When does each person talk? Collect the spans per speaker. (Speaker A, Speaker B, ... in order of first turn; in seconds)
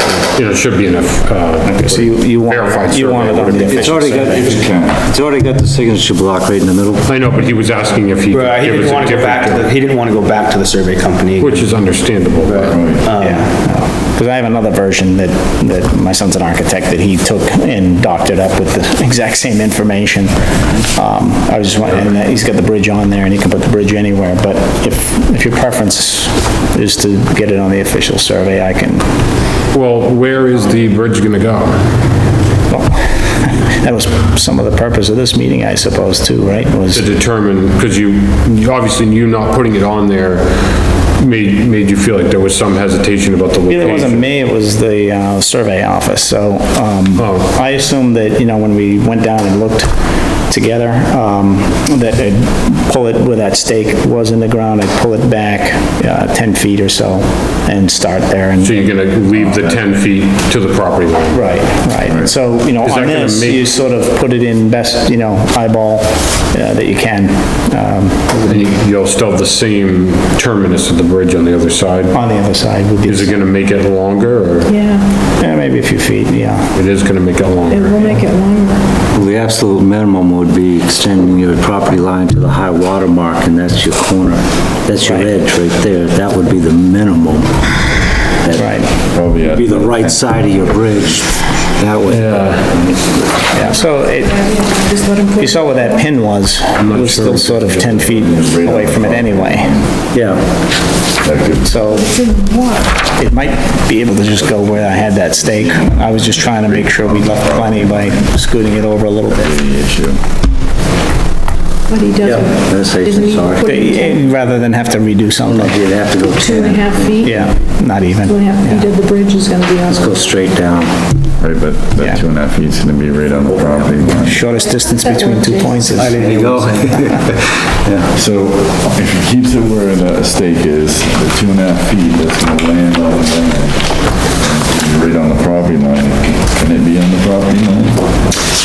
Speaker A: 0.3-4.2, 7.0-9.8, 11.4-12.8, 29.7-31.9, 36.9-44.2, 47.2-47.5, 58.6-61.5, 62.8-63.7, 68.4-72.2, 73.1-74.7, 76.7-78.2, 92.1-92.7, 96.8-98.0
Speaker B: 1.6-4.6, 13.2-29.1, 32.7-37.1, 43.7-59.0, 61.3-68.6, 72.1-73.4, 75.4-76.7, 85.0-85.3, 88.5-88.9, 93.5-94.5, 95.3-99.8, 101.6-102.1, 103.1-109.5, 113.6-115.8, 117.2-118.9, 124.2-126.2, 127.0-127.2
Speaker C: 3.7-7.1, 79.1-93.5, 100.1-100.4, 112.2-113.8, 115.5-117.5, 119.9-121.0, 126.0-128.1
Speaker D: 4.5-5.0, 12.7-13.1, 59.3-59.8, 62.0-62.3, 89.1-91.2, 97.1-100.0, 101.2-101.8, 104.6-108.4, 109.3-110.2, 121.4-124.5, 128.1-138.1
Speaker E: 8.3-11.8, 12.4-13.5, 125.9-127.0
Speaker F: 74.7-75.1, 77.7-78.9, 93.6-96.1, 101.9-103.0, 111.9-114.3, 116.2-117.4, 118.2-120.4, 124.5-126.1